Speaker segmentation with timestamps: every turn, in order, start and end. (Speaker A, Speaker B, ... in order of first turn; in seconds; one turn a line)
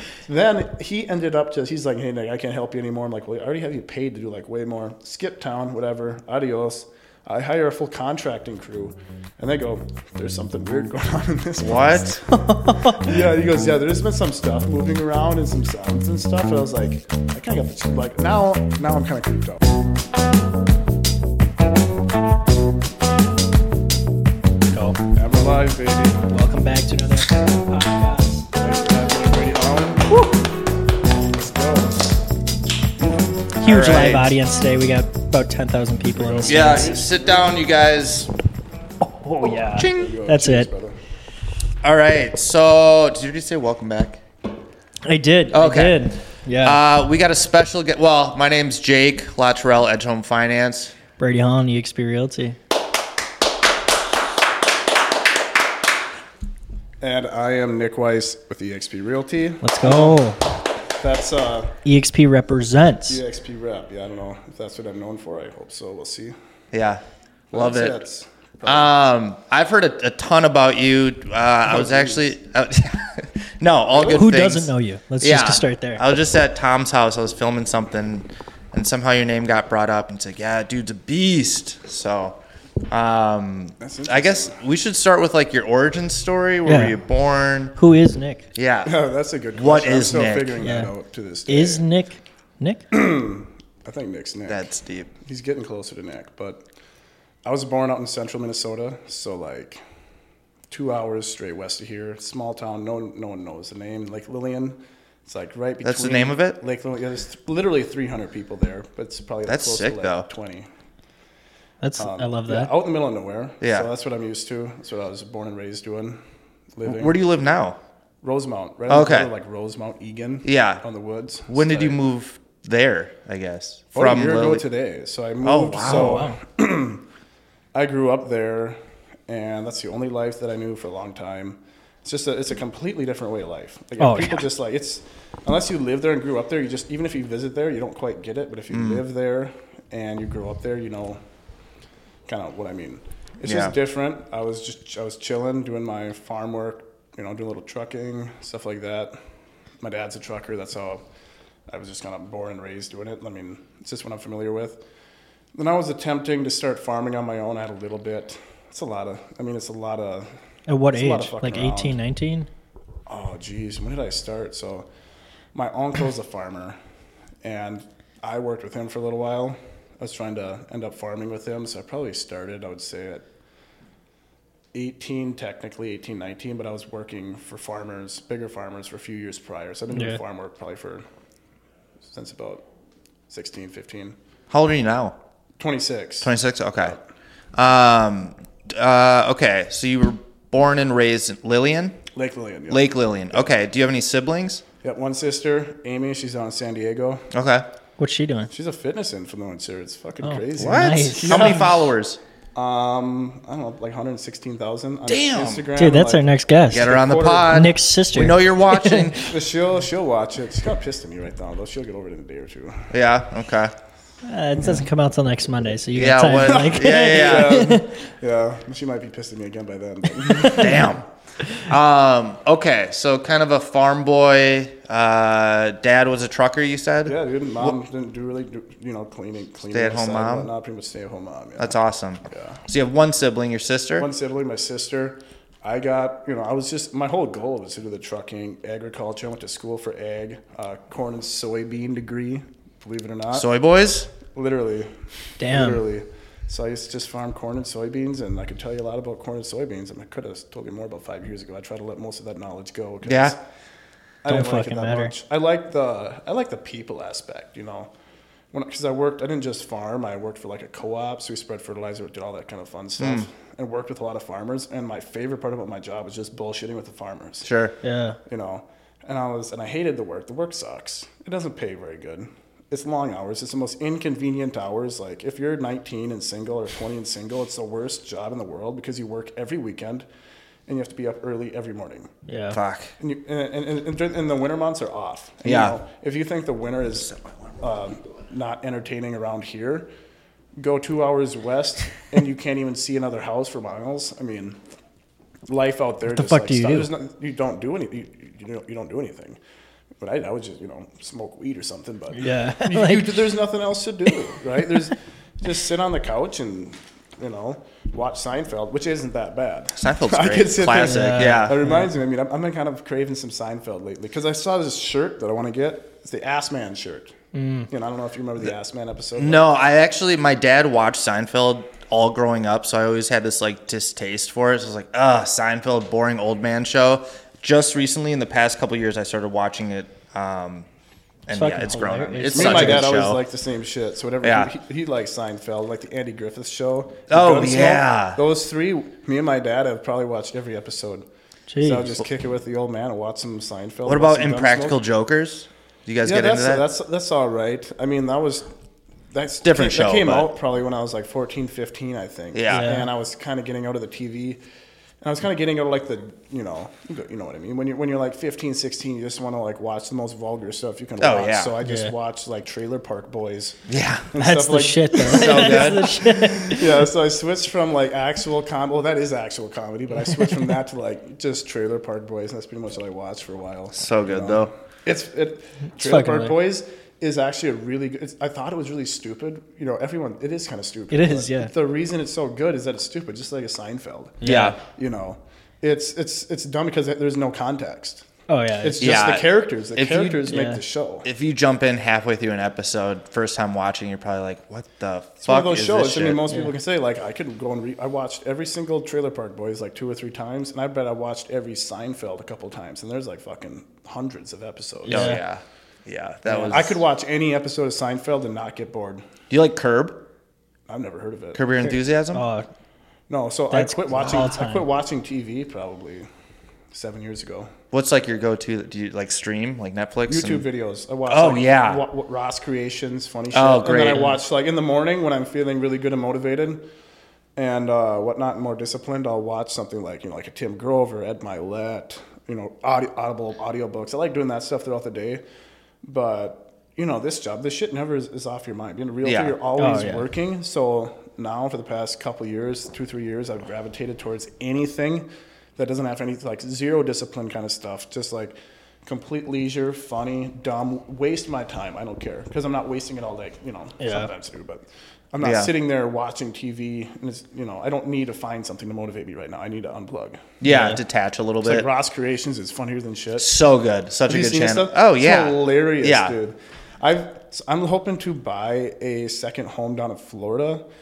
Speaker A: 0.2-12.1
Speaker B: 11.6-12.2
Speaker C: 12.3-13.2
Speaker A: 12.9-19.6
Speaker C: 24.7-25.0
Speaker A: 25.1-26.3
Speaker C: 26.3-28.4
Speaker A: 28.6-30.3
Speaker A: 31.3-32.1
Speaker C: 33.6-37.0
Speaker B: 33.6-34.3
Speaker A: 36.2-37.5
Speaker B: 36.5-38.3
Speaker C: 39.0-40.7
Speaker B: 39.5-40.1
Speaker A: 39.9-41.0
Speaker B: 41.8-44.2
Speaker C: 45.0-46.8
Speaker B: 45.5-51.0
Speaker C: 51.2-52.6
Speaker A: 57.0-60.3
Speaker C: 59.6-60.4
Speaker A: 61.0-61.8
Speaker C: 61.9-63.2
Speaker A: 63.1-66.3
Speaker B: 66.7-67.0
Speaker A: 67.5-68.9
Speaker B: 67.5-68.0
Speaker B: 68.7-82.4
Speaker A: 71.7-72.3
Speaker C: 74.1-76.0
Speaker B: 82.9-87.8
Speaker A: 83.8-84.6
Speaker C: 86.7-87.0
Speaker C: 87.8-88.5
Speaker B: 88.5-89.0
Speaker A: 88.8-91.8
Speaker B: 89.5-90.7
Speaker C: 90.6-90.9
Speaker C: 91.5-92.8
Speaker A: 92.9-94.7
Speaker B: 94.5-95.1
Speaker A: 95.2-96.6
Speaker A: 97.5-99.8
Speaker A: 100.7-110.7
Speaker B: 105.8-106.6
Speaker B: 109.5-110.3
Speaker C: 111.8-112.7
Speaker A: 112.0-116.2
Speaker B: 113.6-113.9
Speaker A: 116.8-117.2
Speaker B: 116.8-117.8
Speaker A: 118.2-122.0
Speaker B: 118.9-119.3
Speaker B: 120.5-120.8
Speaker B: 121.5-124.7
Speaker A: 123.9-127.0
Speaker B: 125.4-126.3
Speaker C: 125.8-126.4
Speaker A: 127.8-141.2
Speaker C: 134.0-134.5
Speaker B: 138.7-139.0
Speaker A: 142.3-149.2
Speaker B: 143.4-143.7
Speaker A: 149.8-151.0
Speaker A: 151.7-154.8
Speaker A: 155.6-160.3
Speaker C: 160.7-162.5
Speaker A: 160.9-162.0
Speaker A: 163.1-164.9
Speaker A: 165.5-166.8
Speaker A: 167.4-173.2
Speaker A: 174.7-181.1
Speaker A: 182.1-182.6
Speaker A: 183.3-184.2
Speaker B: 184.5-185.2
Speaker A: 185.6-187.0
Speaker B: 186.2-187.0
Speaker B: 187.6-192.0
Speaker A: 192.2-193.5
Speaker B: 192.7-194.6
Speaker A: 194.8-197.3
Speaker B: 197.3-197.7
Speaker C: 198.0-198.5
Speaker A: 198.5-201.7
Speaker C: 200.2-201.7
Speaker B: 200.6-202.2
Speaker A: 202.6-207.5
Speaker B: 205.1-205.7
Speaker C: 205.8-209.2
Speaker B: 206.7-209.3
Speaker A: 209.2-212.9
Speaker B: 212.9-213.7
Speaker C: 214.2-218.0
Speaker B: 215.9-217.7
Speaker A: 216.5-221.0
Speaker B: 220.5-221.0
Speaker B: 221.7-227.7
Speaker A: 227.1-231.8
Speaker B: 229.7-230.5
Speaker B: 231.6-234.1
Speaker A: 232.3-232.6
Speaker A: 234.0-243.5
Speaker B: 243.3-244.1
Speaker A: 244.3-244.9
Speaker C: 245.4-245.8
Speaker A: 245.4-253.4
Speaker B: 253.1-253.3
Speaker A: 254.2-257.9
Speaker C: 254.3-255.1
Speaker A: 258.5-267.5
Speaker B: 263.0-263.3
Speaker B: 267.4-267.8
Speaker C: 267.8-268.2
Speaker A: 268.2-280.1
Speaker A: 280.7-282.1
Speaker C: 282.3-282.6
Speaker B: 282.5-282.9
Speaker A: 283.0-289.9
Speaker B: 285.4-285.8
Speaker A: 290.6-294.6
Speaker A: 295.5-299.4
Speaker C: 296.1-296.9
Speaker A: 300.0-317.1
Speaker C: 302.1-303.4
Speaker B: 309.8-311.6
Speaker C: 310.8-311.9
Speaker C: 317.3-317.7
Speaker A: 317.7-319.5
Speaker B: 319.2-330.7
Speaker B: 331.3-333.2
Speaker C: 331.3-333.1
Speaker A: 332.2-341.1
Speaker B: 334.2-334.5
Speaker B: 337.1-338.2
Speaker C: 341.5-341.9
Speaker A: 341.6-344.8
Speaker B: 343.9-346.6
Speaker A: 346.0-348.5
Speaker A: 349.1-354.4
Speaker B: 349.4-350.3
Speaker B: 352.3-352.7
Speaker C: 352.5-352.9
Speaker A: 355.0-363.6
Speaker B: 361.0-361.5
Speaker C: 361.6-361.9
Speaker B: 363.7-364.1
Speaker A: 364.1-388.1
Speaker C: 364.2-366.8
Speaker B: 365.2-365.9
Speaker B: 373.7-374.5
Speaker C: 375.8-376.4
Speaker C: 380.9-381.5
Speaker C: 384.2-384.6
Speaker B: 384.2-384.6
Speaker C: 388.3-388.8
Speaker A: 388.6-391.1
Speaker B: 388.8-390.3
Speaker C: 390.3-390.6
Speaker B: 391.1-396.3
Speaker A: 395.2-405.2
Speaker B: 404.9-406.8
Speaker C: 404.9-405.2
Speaker A: 406.3-409.1
Speaker B: 409.3-410.0
Speaker A: 410.7-411.8
Speaker B: 411.4-412.2
Speaker C: 412.1-412.5
Speaker A: 413.1-416.1
Speaker C: 413.5-414.7
Speaker A: 416.7-417.5
Speaker B: 417.7-420.4
Speaker A: 420.1-426.6
Speaker B: 421.1-421.8
Speaker B: 423.3-424.1
Speaker A: 427.4-435.2
Speaker A: 435.8-460.3
Speaker B: 439.0-439.4
Speaker C: 439.6-440.0
Speaker C: 453.8-454.1
Speaker B: 455.2-455.5
Speaker B: 460.4-461.7
Speaker C: 460.4-460.8
Speaker A: 461.4-463.3
Speaker B: 463.2-466.1
Speaker A: 464.1-470.6